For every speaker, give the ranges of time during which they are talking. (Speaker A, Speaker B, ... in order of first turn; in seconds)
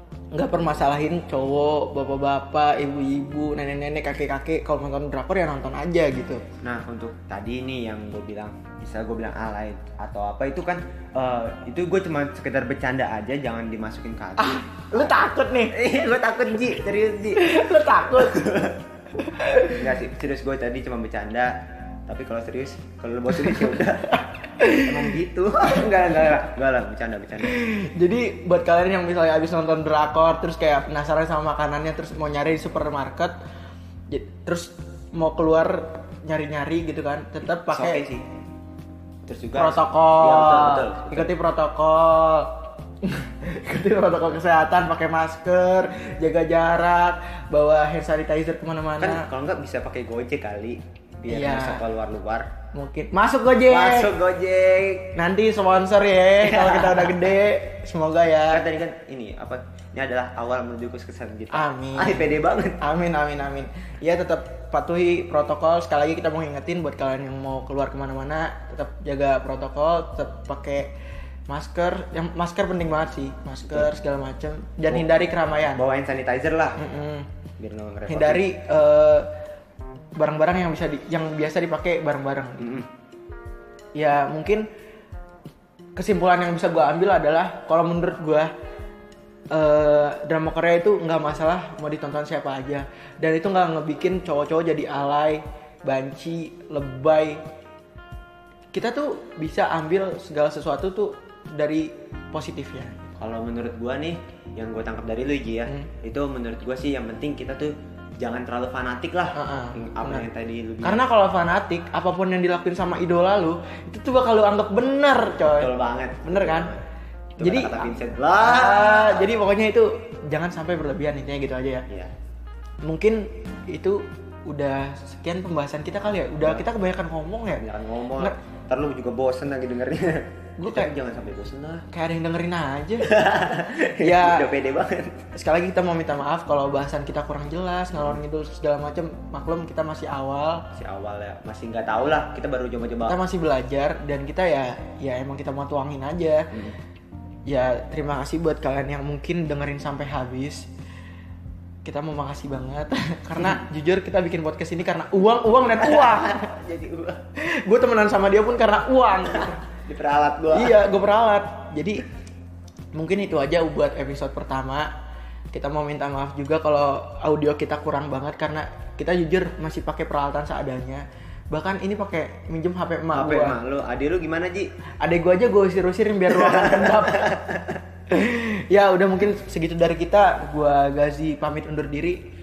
Speaker A: 0.3-6.4, 14.4-15.7, 17.4-18.5, 19.2-19.8, 23.4-23.8, 24.6-25.1, 27.4-33.3, 34.1-38.0, 39.5-42.5, 43.0-49.3, 51.3-51.8, 52.7-54.1, 55.1-58.6, 61.5-62.3, 62.8-70.9, 71.5-75.8, 76.8-77.3, 78.1-79.3, 80.2-82.8, 84.0-84.7, 86.0-88.5, 89.5-97.4, 98.7-103.1, 109.3-110.3, 110.8-115.7, 116.2-116.7, 117.4-121.8, 122.8-127.6, 130.6-130.9, 131.9-133.2, 133.9-134.5, 135.3-140.7, 143.1-146.5, 147.5-150.7, 151.8-156.5, 157.6-159.6, 160.5-162.1, 162.9-164.9, 165.5-173.6, 175.0-177.4, 178.1-182.2
Speaker B: 6.6-15.1, 15.7-17.6, 18.1-18.8, 19.7-21.5, 22.1-24.2, 24.8-27.6, 37.7-38.2, 39.2-41.3, 49.0-52.5, 53.7-55.1, 56.4-57.4, 58.5-62.8, 74.9-76.8, 77.6-78.5, 82.6-82.9, 103.2-111.0, 115.5-116.8, 117.4-119.3, 127.5-131.9, 133.0-135.2, 140.7-143.2, 146.5-146.8, 155.7-157.2, 159.3-160.8, 173.1-174.7, 176.3-177.8